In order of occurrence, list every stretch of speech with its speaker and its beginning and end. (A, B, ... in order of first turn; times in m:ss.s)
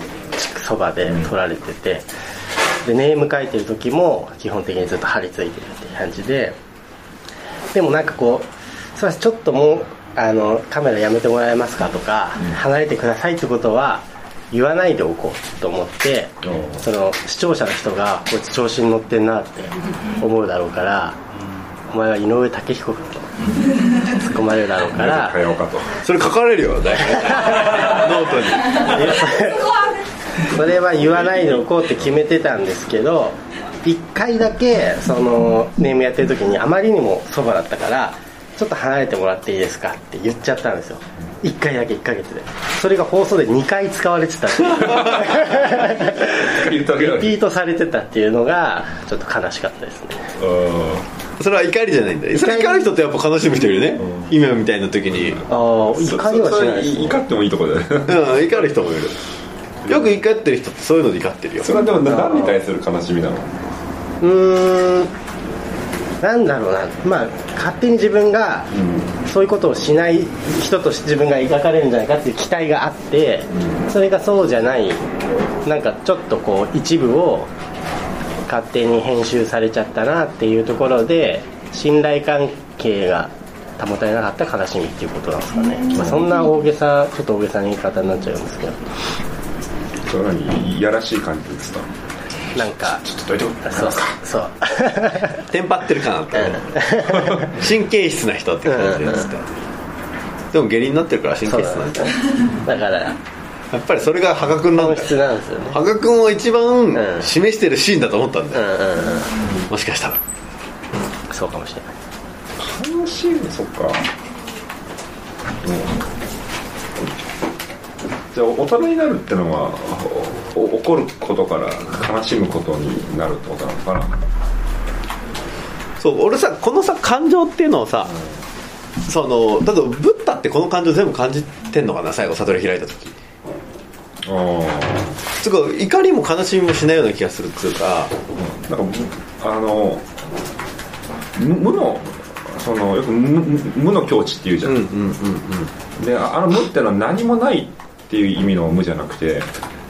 0:00.3-0:02.1 A
0:02.8-0:06.6 A
0:07.7-0:21.2 A
0:16.4-0:16.8 B
0:21.9-0:25.4 A
0:24.9-0:26.0 B
0:26.0-0:29.3 C
0:27.3-0:27.7 A
0:28.8-0:29.7 A
0:30.5-0:50.3 A
0:31.1-0:31.5 B
0:44.6-0:45.5 C
0:44.9-0:47.4 B
0:50.4-0:51.0 B
0:51.4-0:55.4 C
0:52.3-0:52.9 A
0:54.0-0:54.4 B
0:55.2-0:58.4 B
0:55.5-0:57.2 A
0:58.1-0:59.2 C
0:59.9-1:01.7 C
1:01.6-1:03.6 B
1:01.8-1:02.6 A
1:04.2-1:05.1 A
1:06.2-1:08.7 A
1:08.7-1:09.1 B
1:09.2-1:15.0 A
1:15.6-1:17.5 A
1:18.5-1:28.8 A
1:25.9-1:26.2 B
1:30.0-1:31.9 B
1:32.5-1:33.0 A
1:32.8-1:34.2 B
1:33.6-1:35.4 A
1:35.5-1:36.7 C
1:36.3-1:37.5 A
1:37.5-1:39.5 C
1:38.6-1:39.2 A
1:40.5-1:42.1 C
1:41.4-1:42.1 A
1:42.6-1:43.1 A
1:43.7-1:48.6 C
1:44.7-1:45.8 A
1:46.9-1:47.3 A
1:48.5-1:49.5 A
1:49.6-1:50.2 C
1:51.3-1:51.9 A
1:52.6-1:54.1 B
1:55.6-1:56.0 B
1:58.3-2:04.2 B
2:06.0-2:08.1 C
2:08.0-2:08.4 B
2:09.1-2:13.2 C
2:14.2-2:15.2 B
2:15.4-2:18.1 C
2:18.3-2:20.1 B
2:21.4-2:24.9 B
2:24.6-2:25.7 C
2:26.0-2:29.5 B